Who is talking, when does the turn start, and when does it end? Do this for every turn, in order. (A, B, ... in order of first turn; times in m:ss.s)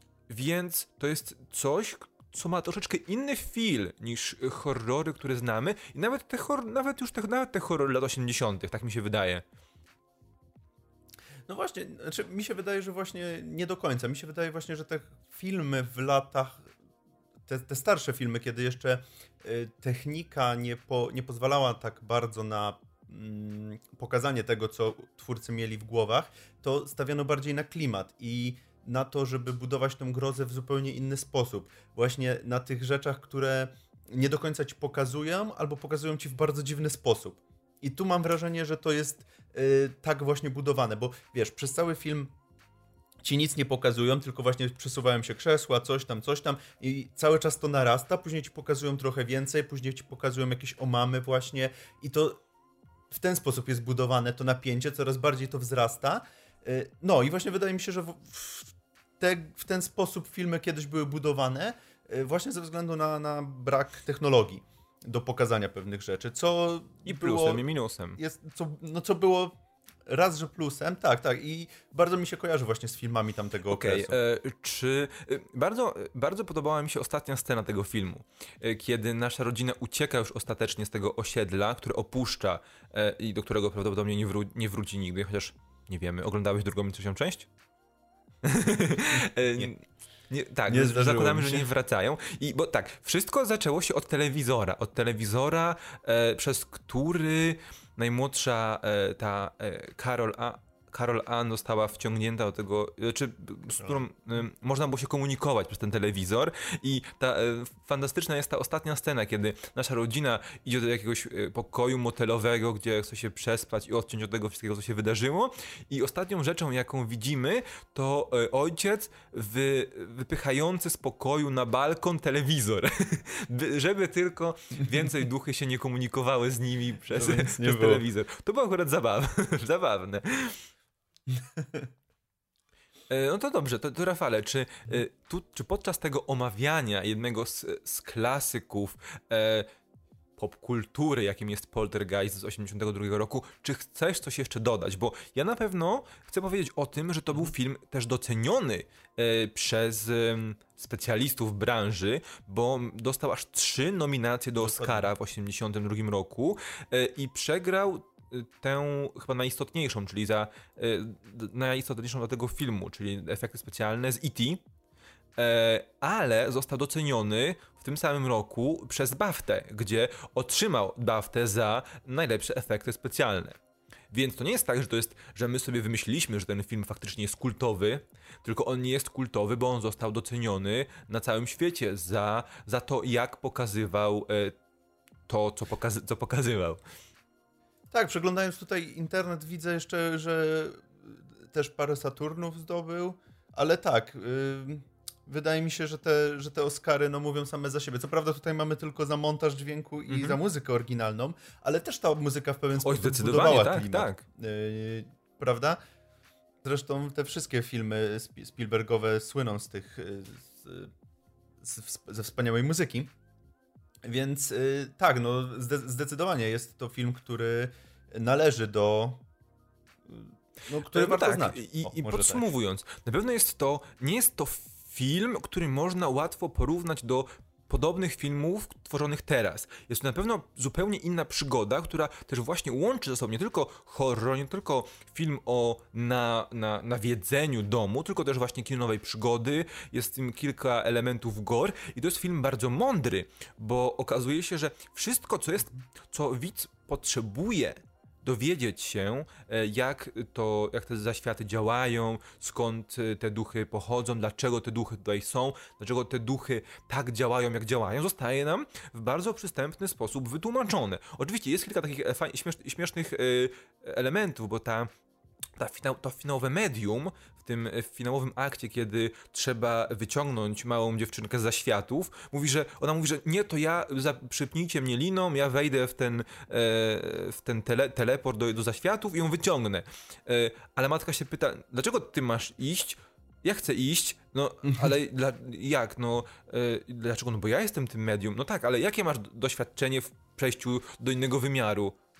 0:00.3-0:09.4 A
0:11.5-0:16.7 B
0:17.5-0:42.3 B
0:43.2-0:52.4 B
0:53.1-1:07.6 B
1:07.0-1:08.2 A
1:08.2-1:09.5 B
1:10.1-1:14.2 B
1:13.7-1:27.5 A
1:28.4-2:10.6 A
1:30.7-1:31.7 B
2:07.1-2:08.0 B
2:11.3-2:11.9 B
2:13.1-2:19.7 A
2:20.4-2:44.6 A
2:34.6-2:35.1 B
2:45.4-2:53.6 A
2:54.1-3:04.6 A
3:05.3-3:06.8 A
3:07.9-3:25.8 B
3:20.1-3:20.4 A
3:22.8-3:24.2 A
3:26.6-3:30.9 B
3:31.6-3:33.1 B
3:34.0-3:39.2 B
3:40.1-3:42.5 B
3:40.9-4:24.9 A
4:25.6-4:52.0 A